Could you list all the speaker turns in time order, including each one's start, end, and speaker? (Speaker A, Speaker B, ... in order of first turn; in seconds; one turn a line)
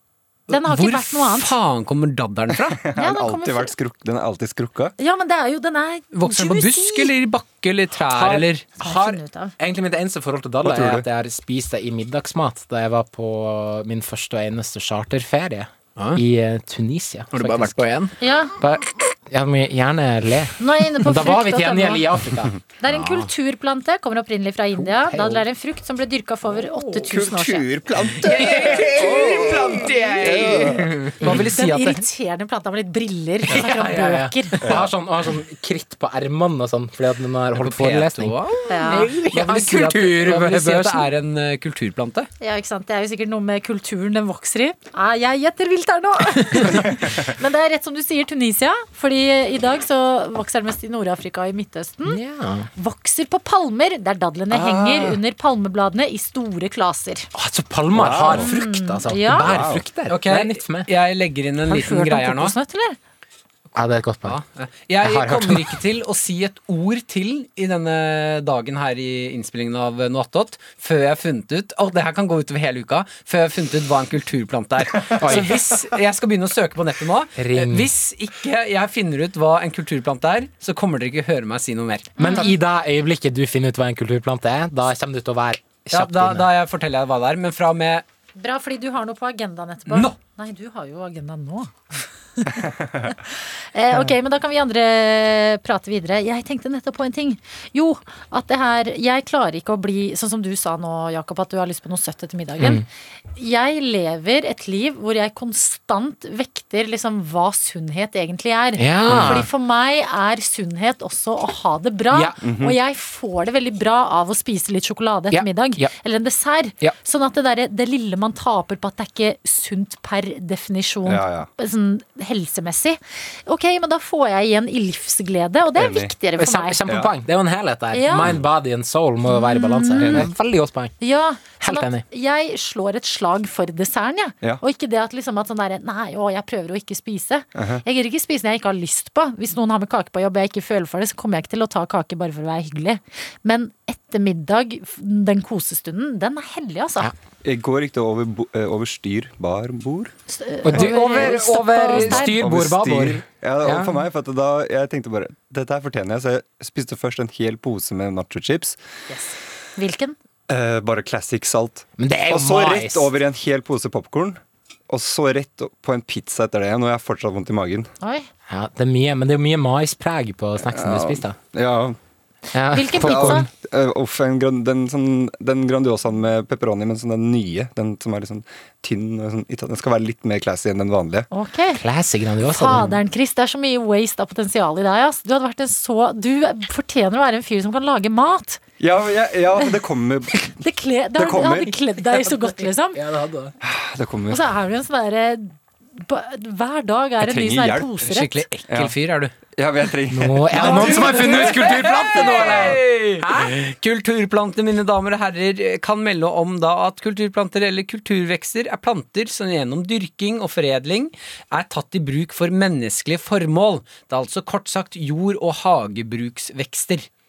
Speaker A: 0.5-1.5
Speaker B: 0.5-2.8
Speaker C: 2.7-5.0
Speaker A: 3.0-3.7
Speaker A: 5.0-7.1
Speaker B: 6.1-8.7
Speaker D: 8.0-17.8
Speaker A: 8.8-9.5
Speaker C: 10.6-11.1
Speaker B: 16.0-16.2
Speaker B: 17.3-18.1
Speaker A: 18.2-18.5
Speaker D: 18.6-22.6
Speaker A: 20.6-22.1
Speaker A: 22.8-27.7
Speaker B: 22.9-23.3
Speaker D: 24.8-25.5
Speaker C: 26.8-31.0
Speaker B: 28.1-32.0
Speaker D: 28.4-29.8
Speaker D: 30.6-31.5
Speaker A: 31.2-34.6
Speaker D: 33.5-41.1
Speaker B: 33.5-33.8
Speaker C: 34.6-34.9
Speaker B: 37.6-42.3
Speaker A: 38.7-39.1
Speaker A: 42.4-52.2
Speaker D: 52.0-52.7
Speaker A: 52.8-57.3
Speaker C: 54.5-55.2
Speaker D: 57.3-60.9
Speaker C: 57.9-58.5
Speaker A: 58.3-59.5
Speaker C: 59.4-59.8
Speaker B: 60.1-62.5
Speaker A: 61.7-63.0
Speaker D: 63.8-64.4
Speaker B: 64.2-82.3
Speaker D: 65.0-65.8
Speaker D: 75.2-75.8
Speaker D: 77.4-77.9
Speaker A: 82.2-82.5
Speaker D: 82.2-86.5
Speaker B: 85.9-88.0
Speaker A: 88.4-126.8
Speaker B: 89.9-90.2
Speaker D: 102.6-102.8
Speaker D: 108.8-109.5
Speaker B: 109.1-109.4
Speaker D: 112.1-112.4
Speaker C: 112.4-112.8
Speaker D: 115.3-115.9
Speaker C: 121.0-121.5
Speaker C: 125.8-126.1
Speaker D: 126.4-131.0
Speaker C: 126.9-127.1
Speaker A: 127.9-128.4
Speaker A: 129.3-130.3
Speaker C: 130.0-130.3
Speaker A: 131.0-147.1
Speaker D: 131.6-132.1
Speaker C: 137.6-137.8
Speaker C: 147.4-150.1
Speaker A: 150.3-152.4
Speaker D: 150.6-154.1
Speaker C: 151.9-158.8
Speaker A: 159.1-160.2
Speaker C: 160.5-167.9
Speaker D: 162.0-163.1
Speaker A: 168.0-168.3
Speaker D: 168.5-171.4
Speaker C: 170.7-172.0
Speaker D: 172.5-173.5
Speaker A: 172.7-173.5
Speaker C: 173.0-181.3
Speaker A: 181.3-181.8
Speaker D: 181.8-183.0
Speaker A: 182.5-188.6
Speaker C: 188.8-190.6
Speaker A: 190.4-193.0
Speaker C: 191.2-191.8
Speaker D: 192.0-193.6
Speaker C: 193.6-194.4
Speaker A: 194.3-198.4
Speaker C: 197.2-198.0
Speaker B: 198.0-199.3
Speaker C: 198.7-198.9
Speaker C: 199.6-202.8
Speaker D: 200.1-203.5
Speaker B: 200.5-217.1